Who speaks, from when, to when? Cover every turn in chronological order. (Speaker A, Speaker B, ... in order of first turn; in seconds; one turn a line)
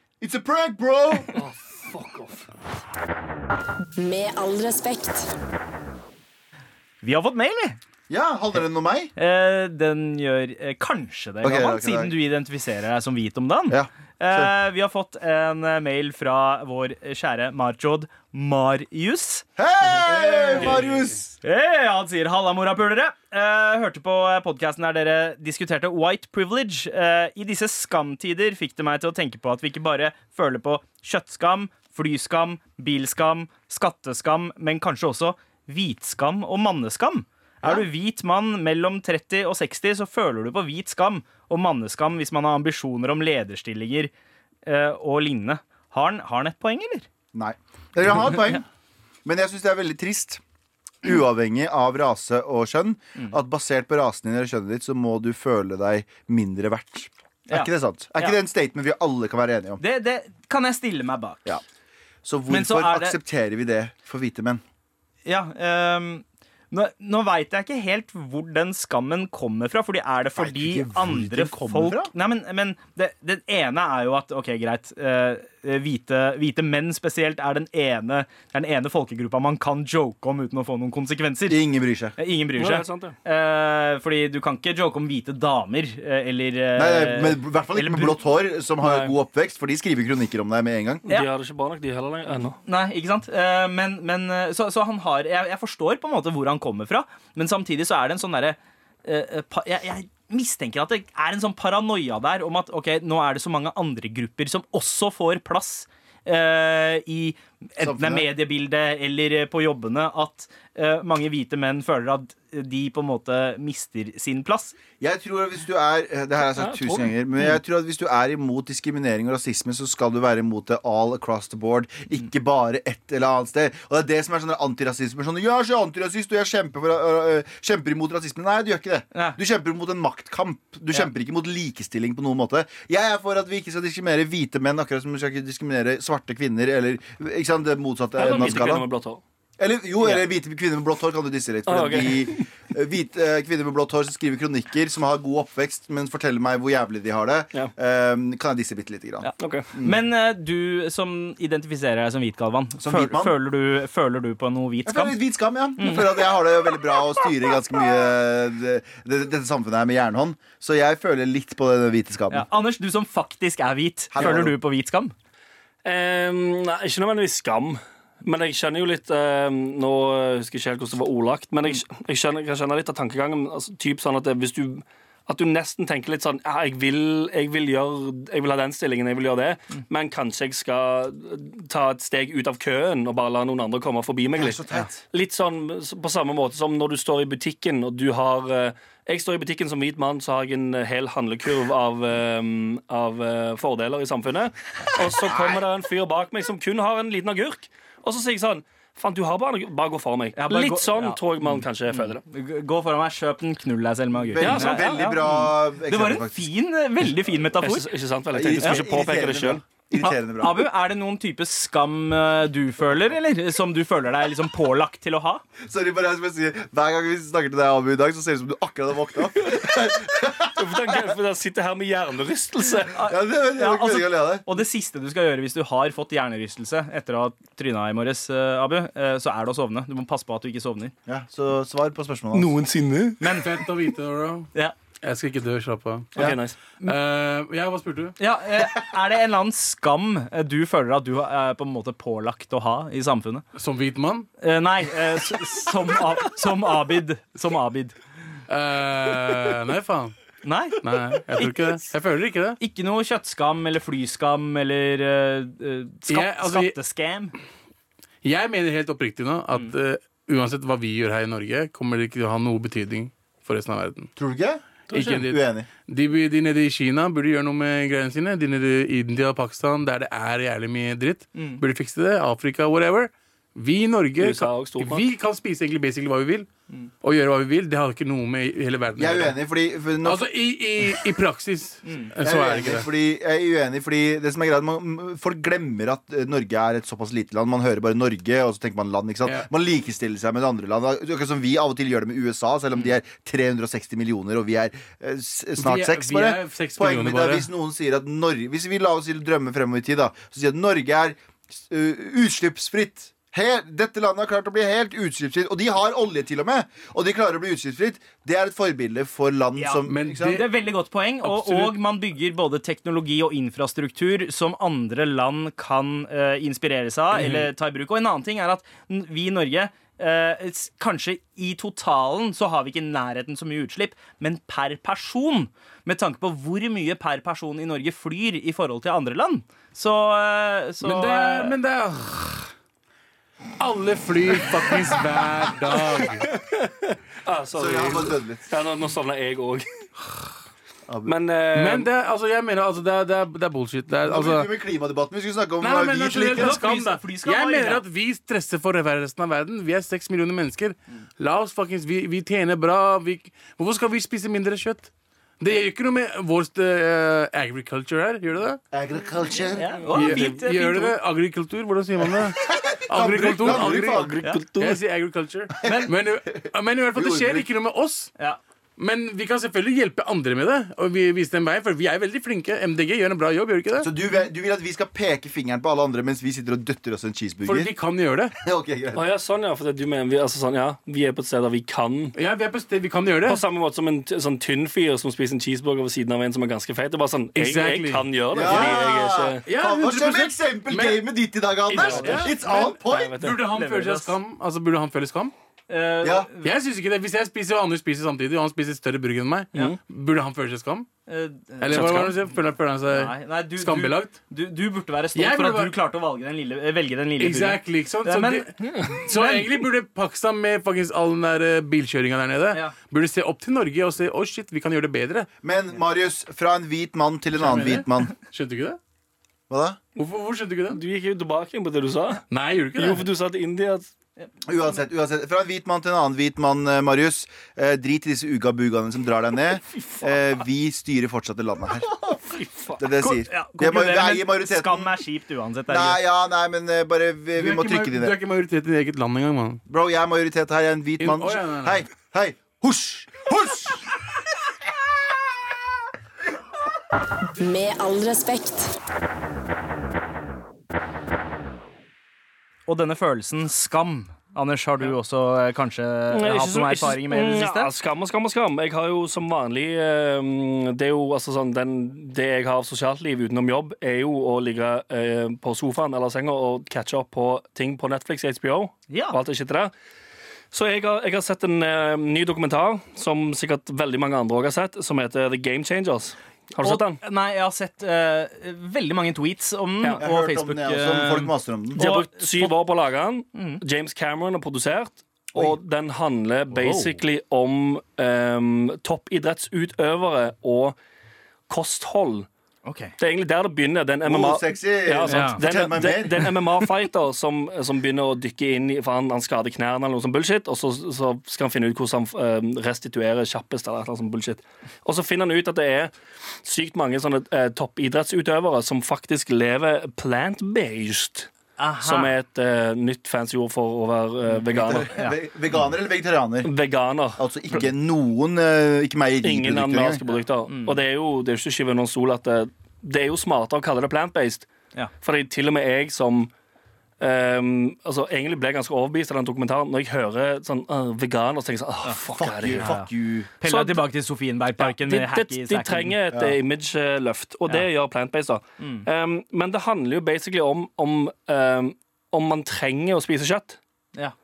Speaker A: 0.2-1.3
Speaker B: 1.3-2.5
Speaker C: 4.0-5.3
Speaker D: 7.0-7.8
Speaker A: 8.1-9.1
Speaker D: 9.2-20.8
Speaker A: 11.4-12.1
Speaker A: 13.7-14.5
Speaker A: 19.6-21.3
Speaker E: 20.6-21.1
Speaker D: 21.4-44.1
Speaker D: 44.6-47.1
Speaker A: 47.3-48.6
Speaker A: 49.2-50.4
Speaker A: 51.0-59.8
Speaker D: 57.5-58.4
Speaker D: 59.8-61.5
Speaker A: 62.2-64.6
Speaker D: 62.5-63.2
Speaker D: 65.2-81.6
Speaker A: 70.4-72.1
Speaker A: 81.5-82.1
Speaker D: 82.2-88.2
Speaker B: 82.6-83.2
Speaker A: 86.8-91.0
Speaker B: 88.8-89.1
Speaker B: 91.1-92.6
Speaker D: 92.6-114.8
Speaker A: 107.8-108.3
Speaker A: 115.0-138.8
Speaker B: 116.5-117.1
Speaker B: 138.2-139.2
Speaker A: 139.6-150.0
Speaker B: 141.7-142.5
Speaker D: 149.2-155.2
Speaker B: 149.4-149.7
Speaker A: 152.8-153.4
Speaker A: 154.9-162.5
Speaker D: 155.8-156.2
Speaker D: 162.3-165.1
Speaker A: 164.1-164.6
Speaker B: 165.8-202.2
Speaker A: 184.4-185.0
Speaker D: 200.3-201.2
Speaker D: 201.9-207.9
Speaker A: 204.3-206.5
Speaker B: 204.4-205.1
Speaker B: 207.6-209.6
Speaker A: 208.3-210.7
Speaker D: 208.6-208.8
Speaker D: 209.9-215.4
Speaker A: 215.6-221.1
Speaker B: 220.5-223.0
Speaker D: 222.9-230.9
Speaker A: 223.0-224.4
Speaker A: 231.1-232.5
Speaker B: 232.3-233.2
Speaker D: 233.2-233.6
Speaker E: 233.2-234.5
Speaker E: 235.0-238.1
Speaker B: 236.2-236.6
Speaker D: 238.2-243.4
Speaker E: 243.6-244.3
Speaker D: 244.4-247.9
Speaker E: 248.5-250.1
Speaker D: 250.4-250.8
Speaker E: 250.8-252.6
Speaker D: 252.6-257.4
Speaker E: 256.1-256.8
Speaker E: 258.2-264.1
Speaker A: 264.2-265.7
Speaker B: 264.9-265.2
Speaker E: 264.9-276.5
Speaker D: 271.4-271.6
Speaker B: 274.2-275.1
Speaker E: 277.0-279.4
Speaker A: 279.0-280.3
Speaker E: 280.0-282.9
Speaker D: 281.9-282.1
Speaker A: 282.2-310.4
Speaker E: 295.6-297.5
Speaker D: 309.6-331.6
Speaker E: 309.9-310.5
Speaker E: 311.2-311.8
Speaker E: 317.1-317.5
Speaker E: 330.8-332.5
Speaker E: 333.6-336.3
Speaker B: 336.1-339.8
Speaker A: 337.6-338.4
Speaker A: 340.9-341.1
Speaker B: 341.1-341.9
Speaker E: 341.5-344.5
Speaker A: 344.1-346.6
Speaker E: 345.6-358.6
Speaker D: 346.3-347.8
Speaker A: 358.7-359.8
Speaker D: 359.6-360.9
Speaker E: 359.9-368.1
Speaker A: 362.1-364.2
Speaker B: 363.4-364.8
Speaker A: 365.6-367.5
Speaker D: 365.6-365.9
Speaker E: 368.8-373.9
Speaker A: 373.8-377.7
Speaker E: 377.4-378.4
Speaker A: 378.4-379.0
Speaker B: 378.9-382.1
Speaker E: 382.1-383.4
Speaker B: 383.3-389.4
Speaker E: 387.4-388.7
Speaker A: 388.3-393.2
Speaker E: 389.4-391.1
Speaker B: 391.7-393.4
Speaker E: 391.7-395.3
Speaker D: 393.5-394.2
Speaker D: 395.7-396.6
Speaker A: 396.0-396.3
Speaker E: 396.4-400.9
Speaker D: 401.1-402.1
Speaker E: 401.6-404.2
Speaker B: 401.7-402.1
Speaker D: 402.9-409.6
Speaker E: 405.1-405.7
Speaker E: 407.2-415.3
Speaker A: 415.4-418.1
Speaker E: 417.4-418.8
Speaker A: 419.5-419.8
Speaker E: 419.9-420.8
Speaker B: 420.7-423.9
Speaker E: 422.3-423.1
Speaker A: 424.4-432.2
Speaker B: 432.4-432.8
Speaker A: 432.8-434.9
Speaker D: 433.0-436.0
Speaker A: 435.7-438.1
Speaker E: 437.4-439.6
Speaker A: 439.7-443.9
Speaker E: 441.0-441.8
Speaker C: 447.4-448.7
Speaker D: 452.7-457.7
Speaker B: 456.1-469.7
Speaker D: 468.9-469.2
Speaker B: 470.5-477.0
Speaker D: 476.6-482.5
Speaker A: 480.0-481.8
Speaker B: 481.8-490.8
Speaker D: 483.3-483.6
Speaker D: 486.6-487.0
Speaker B: 491.5-492.3
Speaker D: 492.6-492.9
Speaker B: 493.0-505.9
Speaker A: 494.1-496.4
Speaker D: 495.1-495.4
Speaker B: 506.4-511.3
Speaker D: 511.6-512.1
Speaker B: 511.8-514.9
Speaker A: 514.5-516.5
Speaker B: 516.4-517.7
Speaker A: 517.2-520.0
Speaker B: 519.2-524.5
Speaker D: 520.5-520.8
Speaker B: 525.0-526.3
Speaker B: 527.0-532.7
Speaker A: 532.1-533.3
Speaker D: 532.5-532.9
Speaker D: 533.4-535.9
Speaker B: 533.4-533.9
Speaker B: 534.6-543.6
Speaker D: 538.6-538.9